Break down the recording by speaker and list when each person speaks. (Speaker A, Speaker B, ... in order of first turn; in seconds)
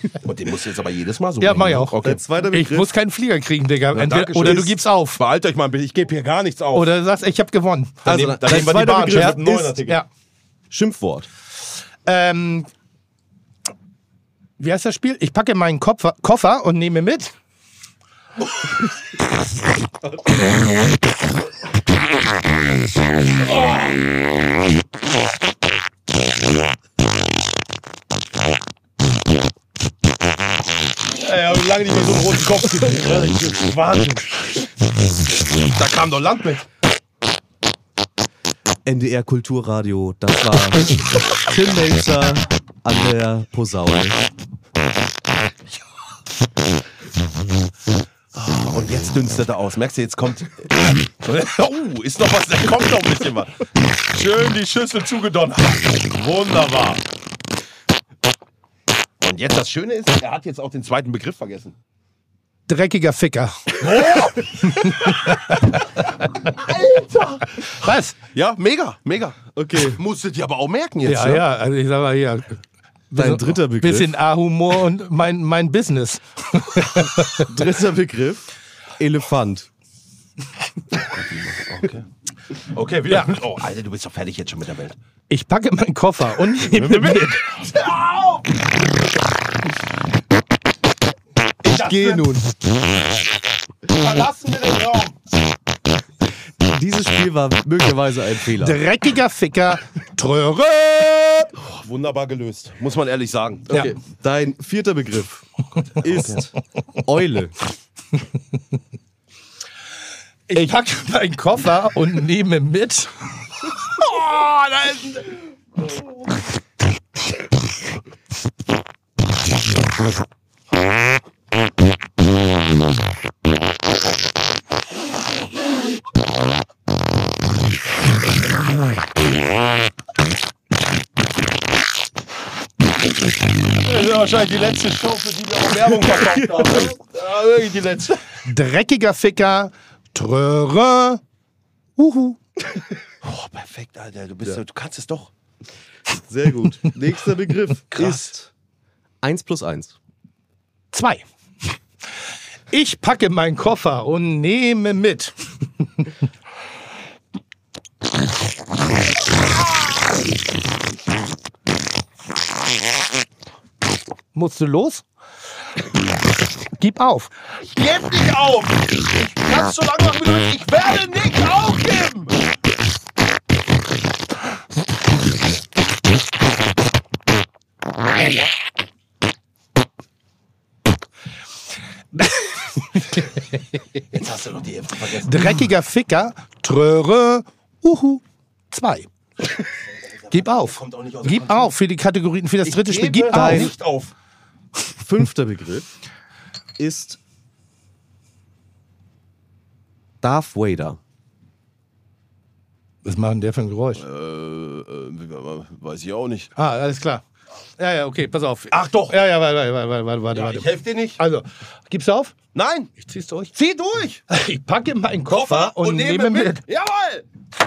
Speaker A: 0.2-2.2, 3.9-6.9, 8.1-10.0, 31.1-34.5, 35.6-36.6, 48.3-57.0, 59.2-61.7, 63.8-65.5, 66.3-67.7, 68.3-71.4, 81.1-82.0, 82.7-85.0, 86.6-88.6, 93.9-95.1, 101.6-103.9, 106.0-106.4, 114.0-115.1, 133.8-138.2, 143.2-145.3, 147.9-148.3, 167.6-172.3, 184.1-185.7, 190.2-191.7, 192.6-194.1, 204.0-206.5, 208.7-209.2, 210.3-211.2, 212.5-212.9, 213.5-214.2, 215.3-217.2
Speaker B: 1.4-2.0, 2.5-5.2, 6.7-10.1, 12.1-12.7, 14.6-17.3, 62.7-66.5, 67.6-68.2, 71.0-77.5, 85.3-87.5, 98.6-101.5, 110.5-114.9, 138.4-141.2, 142.0-142.4, 150.9-151.2, 152.7-156.1, 164.3-165.0, 166.8-167.3, 185.2-189.1, 190.3-193.7, 203.0-204.0, 206.6-207.2, 207.8-212.3, 213.0-213.5, 214.3-216.6
Speaker C: 2.0-2.9, 8.1-9.8, 10.7-11.3, 38.8-44.2, 69.5-70.0, 73.2-74.1, 77.4-79.7, 91.6-92.5, 96.6-98.8, 103.8-106.5, 107.0-107.5, 146.3-148.5, 149.2-149.9, 193.3-193.7, 194.9-195.9, 196.8-197.2, 200.2-201.0